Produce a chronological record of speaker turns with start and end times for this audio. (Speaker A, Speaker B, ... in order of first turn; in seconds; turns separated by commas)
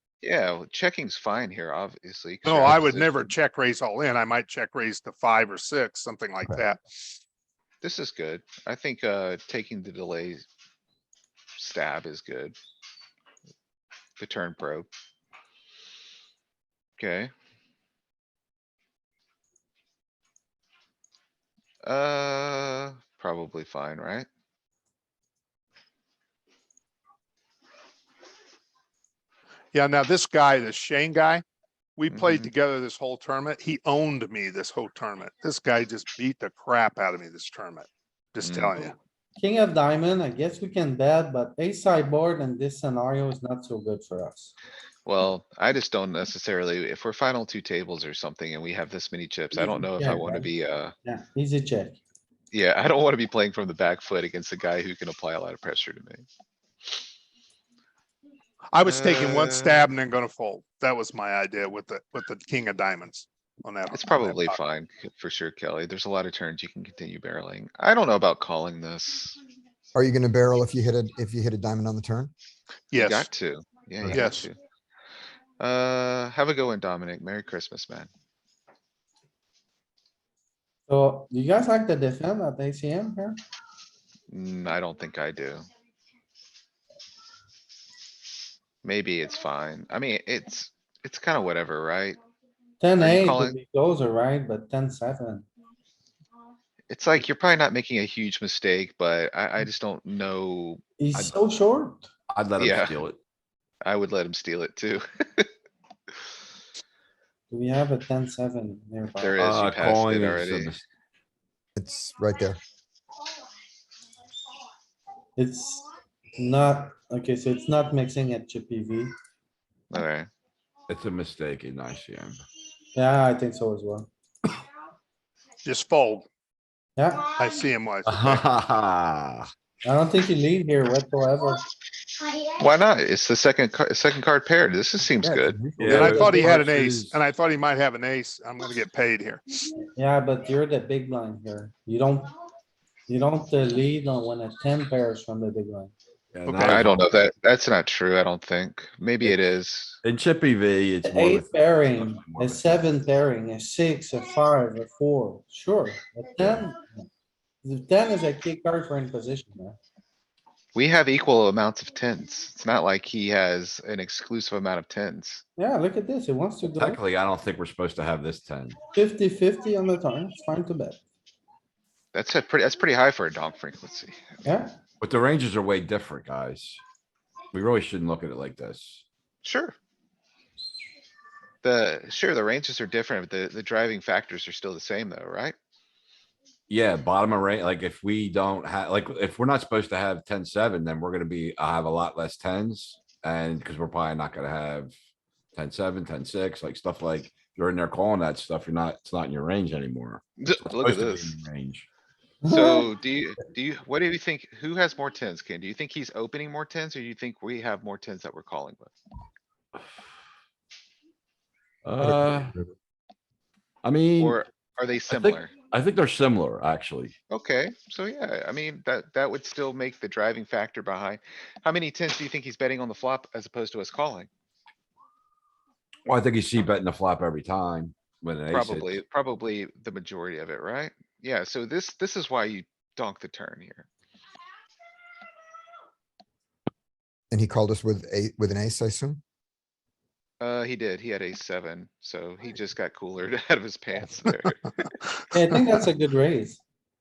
Speaker A: 0.2-3.3, Speaker B: 2.4-7.0, Speaker A: 7.8-10.4, Speaker A: 11.6-12.5, Speaker A: 14.2-14.9, Speaker A: 17.0-17.3, Speaker A: 21.8-24.3, Speaker B: 29.7-31.4, Speaker B: 32.0-38.9, Speaker A: 32.1-32.5, Speaker A: 38.4-38.8, Speaker C: 39.4-44.5, Speaker A: 45.0-50.9, Speaker C: 49.5-50.5, Speaker C: 51.0-52.0, Speaker A: 52.5-56.2, Speaker B: 58.7-64.5, Speaker A: 58.8-59.9, Speaker A: 63.9-69.4, Speaker D: 69.9-72.3, Speaker B: 72.9-73.3, Speaker A: 72.9-74.6, Speaker B: 74.1-74.5, Speaker A: 75.6-78.1, Speaker C: 80.9-83.4, Speaker A: 84.3-85.7, Speaker A: 88.8-92.2, Speaker C: 92.8-95.5, Speaker A: 93.0-93.6, Speaker A: 96.9-100.8, Speaker C: 101.0-102.1, Speaker E: 102.3-103.2, Speaker A: 102.6-103.0, Speaker A: 103.8-105.5, Speaker C: 107.5-109.3, Speaker A: 109.2-110.7, Speaker E: 109.4-110.8, Speaker D: 111.8-112.6, Speaker C: 115.4-115.8, Speaker C: 116.4-119.1, Speaker A: 119.9-120.3, Speaker E: 120.9-122.4, Speaker C: 122.9-124.1, Speaker B: 125.6-126.2, Speaker C: 127.0-127.3, Speaker B: 127.3-128.4, Speaker E: 128.0-129.5, Speaker C: 129.8-131.6, Speaker A: 132.5-135.6, Speaker C: 135.2-136.6, Speaker E: 135.8-137.2, Speaker B: 135.9-139.4, Speaker C: 139.7-142.3, Speaker C: 143.1-145.9, Speaker E: 146.3-147.0, Speaker B: 146.4-146.8, Speaker A: 146.6-150.0, Speaker E: 150.0-152.9, Speaker C: 151.0-157.1, Speaker E: 156.4-156.7, Speaker C: 157.6-159.8, Speaker A: 160.7-165.4, Speaker C: 165.6-167.0, Speaker E: 166.7-168.8, Speaker C: 168.9-171.0, Speaker A: 172.1-174.2, Speaker C: 174.4-174.7, Speaker E: 175.0-176.8, Speaker E: 177.5-179.0, Speaker A: 179.4-179.7, Speaker A: 181.6-185.6, Speaker E: 186.7-194.9, Speaker E: 195.5-201.9, Speaker A: 200.4-201.3, Speaker C: 202.4-202.9, Speaker A: 202.4-208.9, Speaker E: 211.8-212.5, Speaker D: 212.0-212.7, Speaker E: 213.8-214.4, Speaker A: 214.2-215.5, Speaker E: 215.1-217.1, Speaker A: 217.3-224.3, Speaker E: 226.1-228.9, Speaker A: 228.5-233.9, Speaker D: 237.3-239.2, Speaker A: 240.4-244.9, Speaker C: 245.3-246.6